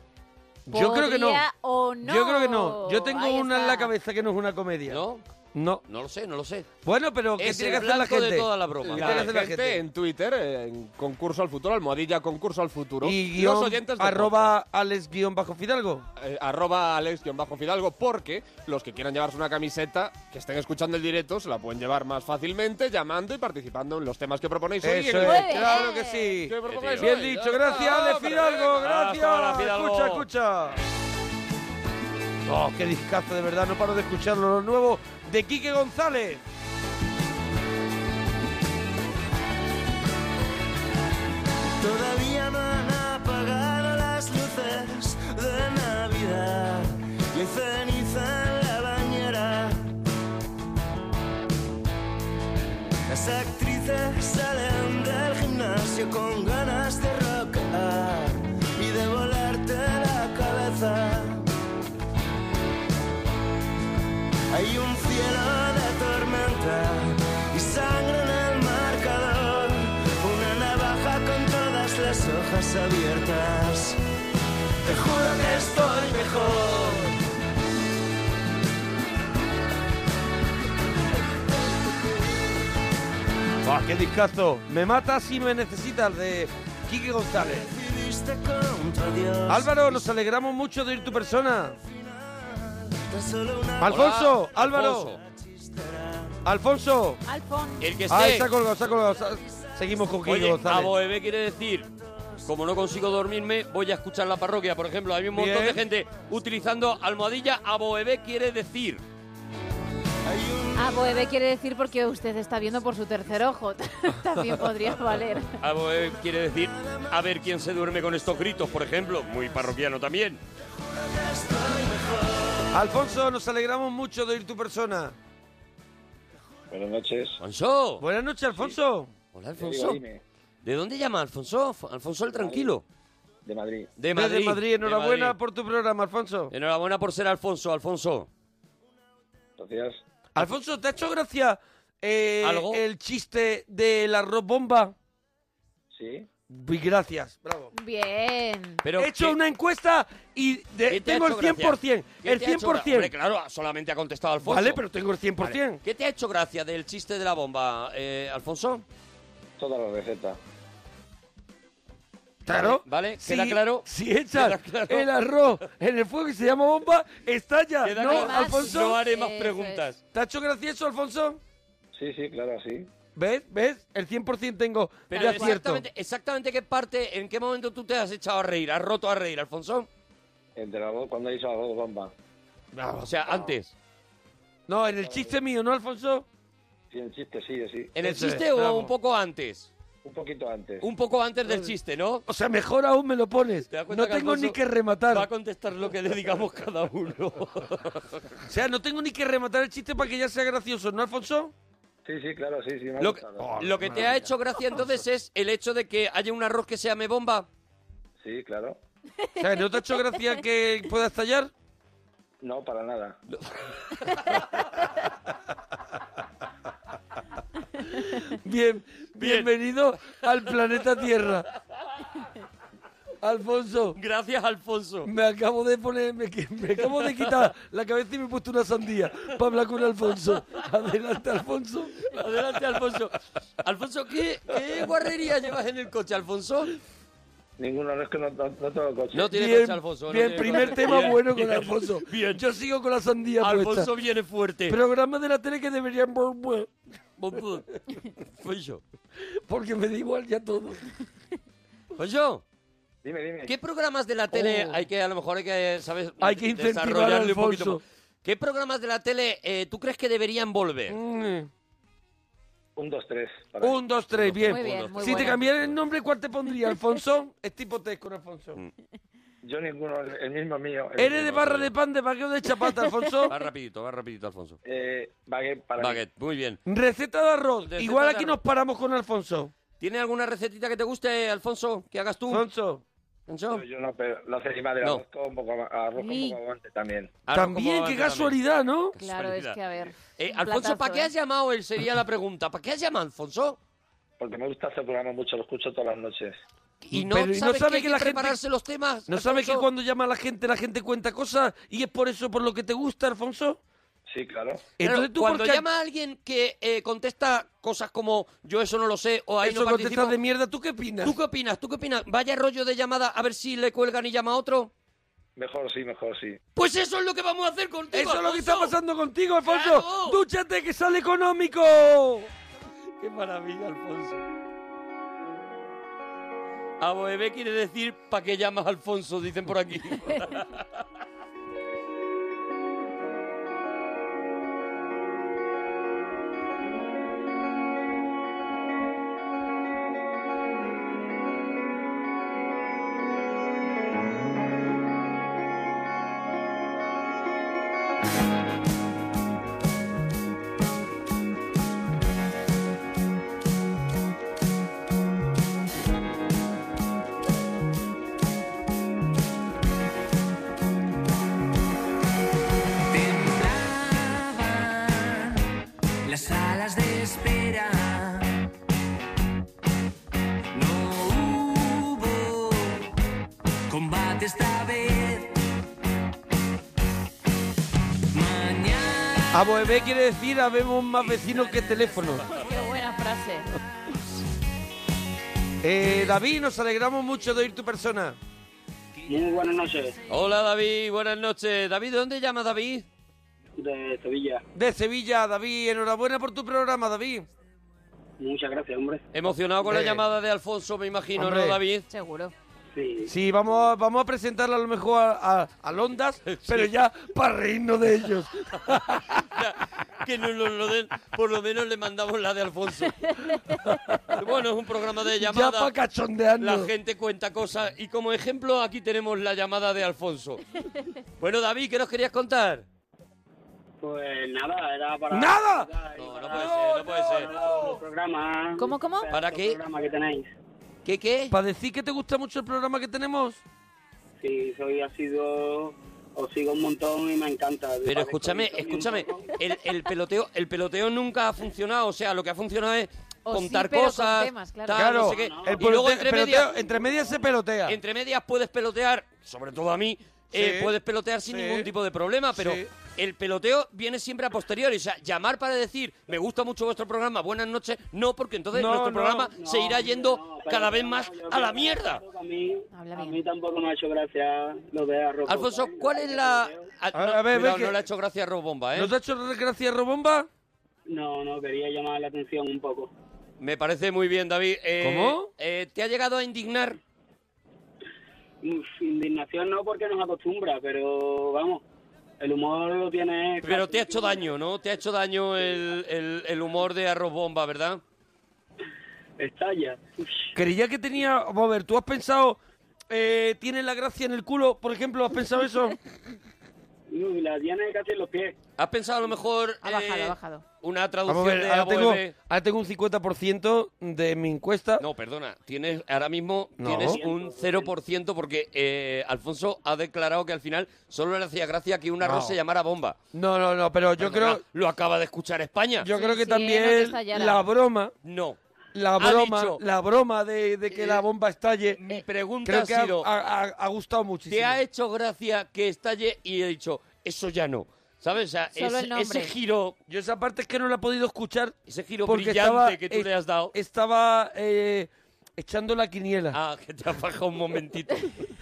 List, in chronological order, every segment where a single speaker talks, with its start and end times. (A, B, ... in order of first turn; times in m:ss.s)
0:00.7-0:01.4 A
0:00.7-0:03.9 B
0:02.0-0:05.0 A
0:04.9-0:05.2 C
0:05.5-0:05.8 A
0:05.8-0:06.7 C
0:06.8-0:09.8 A
0:07.4-0:09.7 C
0:08.8-0:14.5 D
0:13.0-0:16.1 A
0:16.2-0:25.8 D
0:24.8-0:30.8 A
0:25.2-0:26.4 B
0:26.4-0:28.8 D
0:26.7-0:27.2 C
0:28.7-0:30.2 C
0:32.4-0:36.4 A
0:41.8-0:50.0 E
0:53.1-1:01.5 E
1:04.5-1:14.0 E
1:14.9-1:17.1 E
1:14.9-1:16.5 A
1:23.6-1:27.7 A
1:27.4-1:30.0 E
1:29.5-1:31.8 A
1:31.9-1:34.0 E
1:33.8-1:35.1 A
1:33.9-1:35.2 C
1:35.2-1:36.4 E
1:36.4-1:37.2 A
1:37.2-1:37.9 B
1:37.8-1:38.5 C
1:38.1-1:40.9 A
1:40.2-1:41.9 C
1:42.4-1:49.0 C
1:45.3-1:45.8 A
1:50.2-1:51.2 E
1:50.8-1:55.5 B
1:55.6-2:00.4 C
1:56.8-1:57.0 E
2:00.9-2:02.6 E
2:02.7-2:05.2 A
2:06.7-2:07.4 F
2:07.4-2:08.0 C
2:08.0-2:09.1 A
2:09.3-2:10.0 C
2:09.6-2:10.2 F
2:10.6-2:12.8 C
2:12.4-2:12.7 F
2:13.4-2:13.9 F
2:14.0-2:15.4 C
2:14.1-2:16.5 A
2:16.5-2:18.3 C
2:19.6-2:20.0 F
2:20.3-2:24.9 A
2:22.4-2:22.8 C
2:25.9-2:26.3 F
2:26.5-2:27.7 A
2:27.7-2:28.8 B
2:28.8-2:29.4 C
2:29.0-2:33.1 A
2:30.9-2:34.8 C
2:34.4-2:35.8 A
2:35.4-2:38.8 C
2:39.6-2:40.4 F
2:42.4-2:49.0 A
2:42.5-2:45.1 C
2:47.8-2:50.0 C
2:48.0-2:49.8 B
2:50.1-2:51.4 A
2:51.9-2:52.9 F
2:53.2-2:55.8 A
2:55.1-2:59.9 C
3:00.6-3:02.1 F
3:02.7-3:03.3 A
3:03.0-3:03.7 C
3:04.7-3:06.2 A
3:06.9-3:07.9 F
3:08.0-3:09.7 C
3:08.0-3:08.9 A
3:10.0-3:10.9 F
3:10.8-3:12.2 C
3:12.3-3:15.3 A
3:13.7-3:14.6 C
3:15.1-3:18.2 C
3:18.5-3:21.5 A
3:22.0-3:24.2 F
3:23.0-3:27.5 C
3:23.4-3:24.2 A
3:28.2-3:28.8 F
3:29.4-3:31.5 A
3:32.4-3:33.2 F
3:34.0-3:34.4 C
3:38.2-3:41.5 A
3:39.2-3:39.5 C
3:43.2-3:44.0 A
3:44.0-3:45.1 C
3:45.0-3:52.1 A
3:52.0-3:56.7 C
3:57.6-3:59.3 F
3:59.1-4:02.4 C
3:59.3-4:03.9 A
4:03.4-4:04.8 C
4:04.7-4:06.7 A
4:07.2-4:07.7 C
4:08.2-4:08.8 C
4:09.5-4:10.8 A
4:11.9-4:12.4 C
4:13.0-4:13.5 F
4:13.4-4:21.0 C
4:14.3-4:14.8 A
4:16.2-4:17.8 A
4:20.9-4:21.5 A
4:22.8-4:23.8 F
4:23.6-4:28.6 A
4:24.1-4:25.8 C
4:24.5-4:25.4 B
4:29.4-4:31.3 F
4:31.0-4:33.3 A
4:31.1-4:31.7 C
4:33.3-4:34.6 C
4:34.6-4:36.0 F
4:35.8-4:36.6 C
4:36.6-4:39.5 A
4:37.7-4:38.4 C
4:39.8-4:42.4 C
4:42.3-4:42.8 A
4:43.3-4:43.6 C
4:43.5-4:47.2 F
4:46.0-4:46.4 B
4:47.3-4:48.4 C
4:47.3-4:48.9 A
4:48.9-4:49.6 C
4:49.0-4:51.1 B
4:50.2-4:53.6 C
4:54.2-4:56.4 F
4:56.8-4:59.7 C
4:56.9-4:58.4 A
4:59.1-5:03.6 A
5:04.1-5:04.7 F
5:04.8-5:05.6 A
5:04.8-5:10.2 C
5:09.4-5:11.2 A
5:11.0-5:14.7 C
5:15.4-5:16.4 F
5:16.5-5:18.7 C
5:17.9-5:22.3 A
5:19.4-5:20.2 C
5:23.0-5:24.2 C
5:26.8-5:30.7 C
6:19.3-6:22.2 A
6:22.1-6:22.4 C
6:22.3-6:23.5 B
6:25.6-6:28.2 A
6:29.1-6:30.0 G
6:30.1-6:32.8 C
6:33.6-6:34.4 G
6:34.5-6:37.3 A
6:38.2-6:39.0 G
6:39.1-6:41.9 C
6:39.6-6:40.0 A
6:41.2-6:41.6 A
6:41.9-6:42.3 B
6:42.7-6:43.1 G
6:43.1-6:49.2 A
6:46.2-6:46.7 C
6:48.7-6:53.1 C
6:54.1-6:55.7 C
6:55.2-6:56.7 A
6:56.4-7:00.4 C
7:01.2-7:02.6 C
7:03.8-7:10.3 G
7:05.1-7:05.7 A
7:05.9-7:07.3 C
7:06.3-7:07.8 A
7:08.6-7:09.1 B
7:09.1-7:09.6 C
7:10.8-7:11.3 C
7:11.3-7:13.4 A
7:14.2-7:19.3 G
7:17.8-7:26.5 C
7:23.2-7:24.9 B
7:24.7-7:27.8 A
7:25.0-7:25.7 G
7:26.6-7:27.1 G
7:27.7-7:42.0 C
7:30.3-7:30.7 A
7:31.2-7:31.7 A
7:32.3-7:32.7 A
7:38.5-7:39.3 A
7:39.4-7:46.7 G
7:42.7-7:43.2 B
7:45.2-7:48.9 C
7:46.9-7:47.8 A
7:48.7-7:50.3 A
7:50.8-7:52.9 G
7:53.4-7:56.8 C
7:54.8-7:55.3 A
7:58.4-8:01.6 G
8:02.2-8:04.3 G
8:03.4-8:07.8 C
8:09.2-8:10.3 G
8:10.4-8:15.8 A
8:16.9-8:18.4 G
8:18.6-8:22.1 C
8:19.6-8:20.4 B
8:21.1-8:24.8 A
8:24.8-8:33.0 C
8:26.6-8:27.0 A
8:26.7-8:27.7 G
8:32.0-8:32.4 A
8:33.1-8:34.4 A
8:34.0-8:35.9 C
8:35.8-8:37.9 A
8:35.9-8:37.4 B
8:38.0-8:38.4 C
8:38.7-8:41.8 A
8:39.0-8:39.6 C
8:40.7-8:41.0 C
8:41.8-8:43.1 C
8:42.4-8:44.6 A
8:44.3-8:49.8 C
8:48.5-8:49.3 B
8:49.9-8:51.5 A
8:51.7-8:53.5 C
8:52.0-8:56.4 A
8:56.3-8:58.3 C